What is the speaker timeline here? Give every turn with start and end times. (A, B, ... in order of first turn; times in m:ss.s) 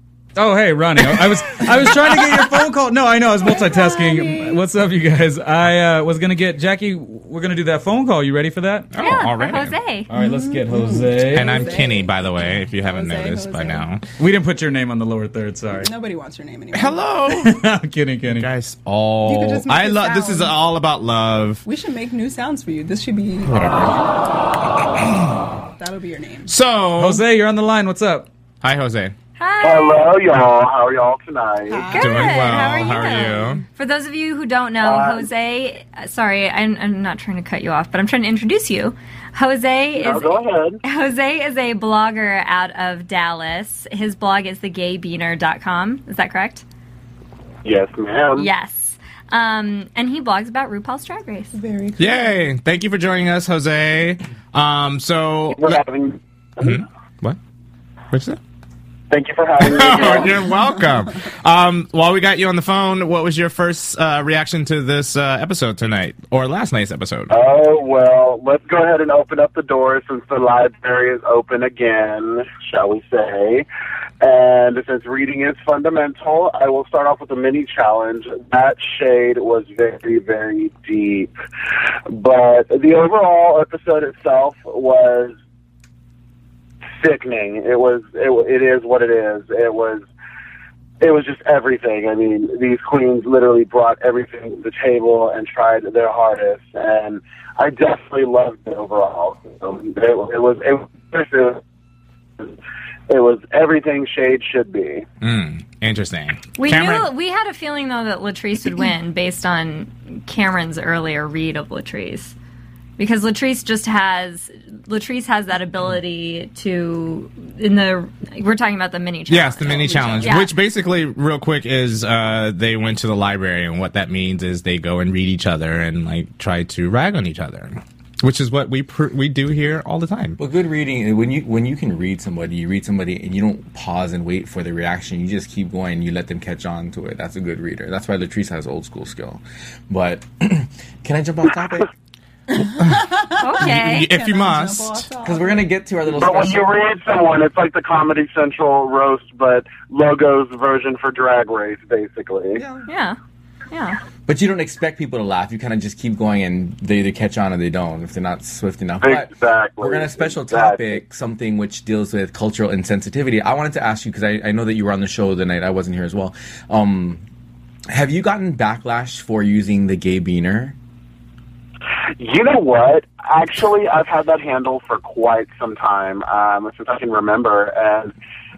0:00.4-0:08.9 A
0:03.4-0:04.6 B
0:08.9-0:09.8 C
0:09.0-0:10.1 D
0:10.1-0:11.6 A
0:10.1-0:13.9 B
0:11.3-0:14.0 C
0:14.2-0:15.9 A
0:15.8-0:17.1 B
0:16.7-0:17.6 C
0:17.4-0:18.5 A
0:18.3-0:21.6 C
0:19.2-0:20.5 B
0:21.7-0:24.0 B
0:23.5-0:24.0 C
0:25.8-0:26.5 B
0:26.5-0:27.2 C
0:27.0-0:28.3 A
0:28.6-0:29.1 C
0:29.4-0:30.1 D
0:29.6-0:31.9 E
0:31.7-0:33.4 B
0:31.9-0:46.6 D
0:32.0-0:33.6 C
0:34.8-0:35.3 E
0:40.0-0:40.8 E
0:47.6-0:48.5 E
0:48.4-0:51.6 D
0:51.5-0:52.5 B
0:52.0-0:55.8 C
0:55.6-0:56.8 E
0:56.6-0:57.4 C
0:58.1-0:58.4 C
0:59.1-1:00.4 E
0:59.6-1:07.3 C
1:07.3-1:13.7 E
1:14.2-1:21.3 E
1:22.1-1:25.4 E
1:27.0-1:30.1 E
1:31.0-1:41.6 E
1:43.1-1:45.1 E
1:45.2-1:47.1 C
1:46.6-1:52.3 D
1:53.0-2:00.5 D
1:59.3-2:10.4 C
1:59.7-2:00.5 B
2:10.4-2:21.9 F
2:22.5-2:25.7 B
2:23.4-2:24.1 D
2:23.6-2:25.0 C
2:25.2-2:26.7 F
2:26.1-2:32.6 E
2:32.6-2:32.9 F
2:32.9-2:33.2 D
2:33.7-2:34.0 D
2:34.3-2:39.3 F
2:39.0-2:41.0 E
2:39.8-2:47.2 F
2:47.9-2:50.8 F
2:52.2-2:58.1 E